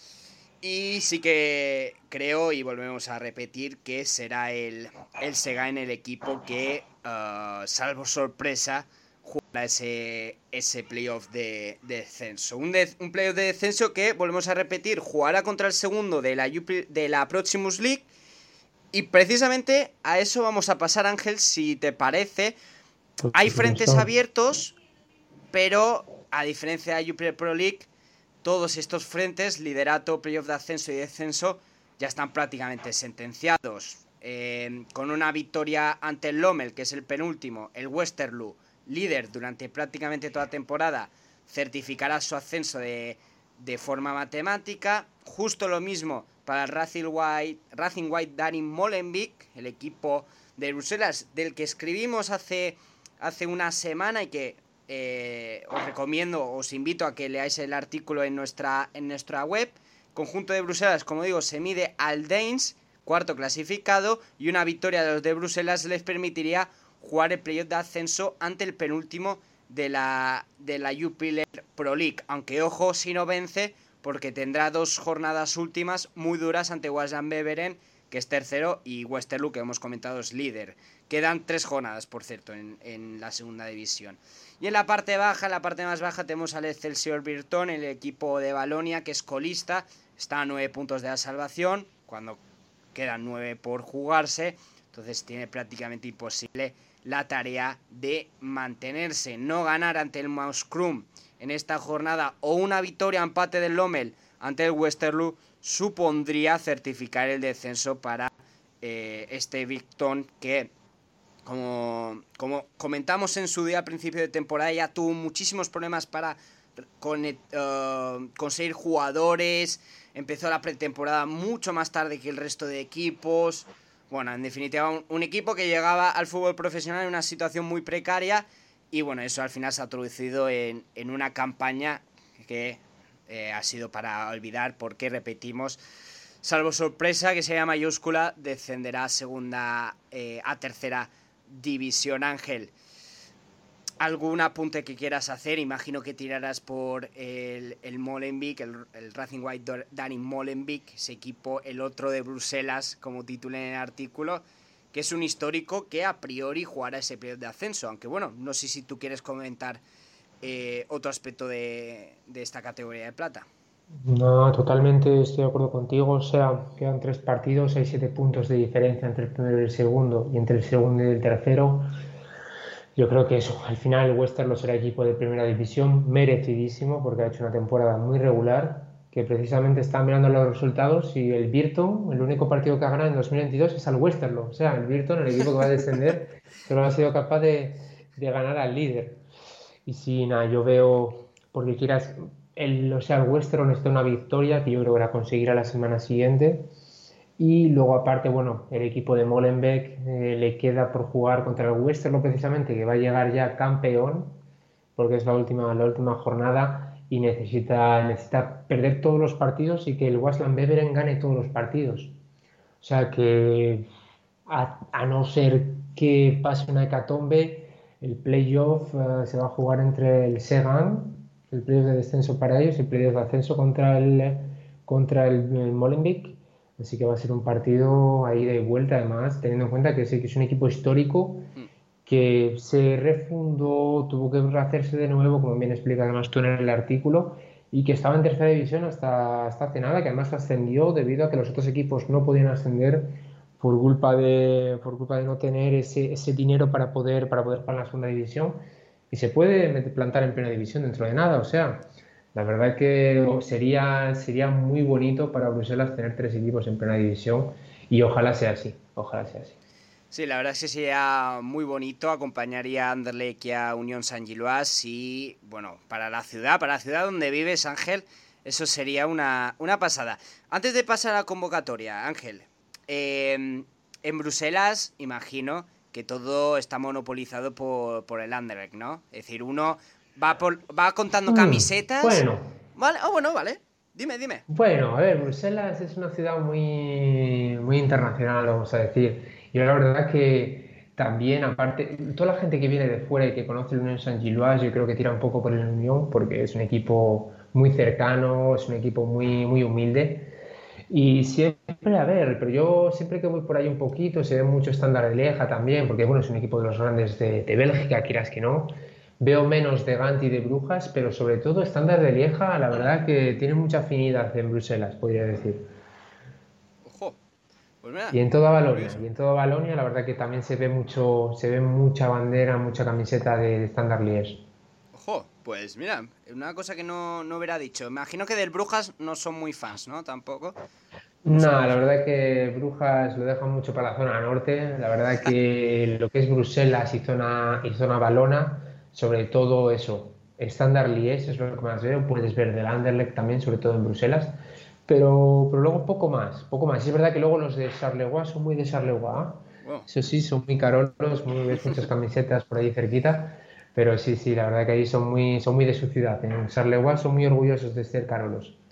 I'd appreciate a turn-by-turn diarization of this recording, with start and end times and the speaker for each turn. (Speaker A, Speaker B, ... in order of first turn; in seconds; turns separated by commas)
Speaker A: 0.6-18.1, Speaker A: 18.9-22.6, Speaker B: 23.2-24.1, Speaker A: 23.3-24.8, Speaker A: 25.5-27.9, Speaker A: 28.4-92.4, Speaker A: 92.9-110.7, Speaker A: 111.5-116.4, Speaker A: 117.0-135.8, Speaker A: 136.4-142.7, Speaker A: 144.0-159.8, Speaker A: 160.4-163.5, Speaker B: 164.0-171.9, Speaker B: 173.0-189.2, Speaker B: 189.9-196.7, Speaker B: 197.4-204.4, Speaker B: 205.0-212.2, Speaker B: 212.8-213.9, Speaker B: 214.5-231.5, Speaker B: 232.1-259.6, Speaker A: 260.1-282.2, Speaker B: 281.3-282.5, Speaker A: 282.8-284.4, Speaker B: 284.5-300.3, Speaker B: 300.9-315.7, Speaker A: 316.9-317.2, Speaker A: 317.8-319.0, Speaker B: 318.1-324.4, Speaker A: 324.9-330.6, Speaker B: 331.2-344.4, Speaker A: 331.3-331.8, Speaker B: 344.9-358.6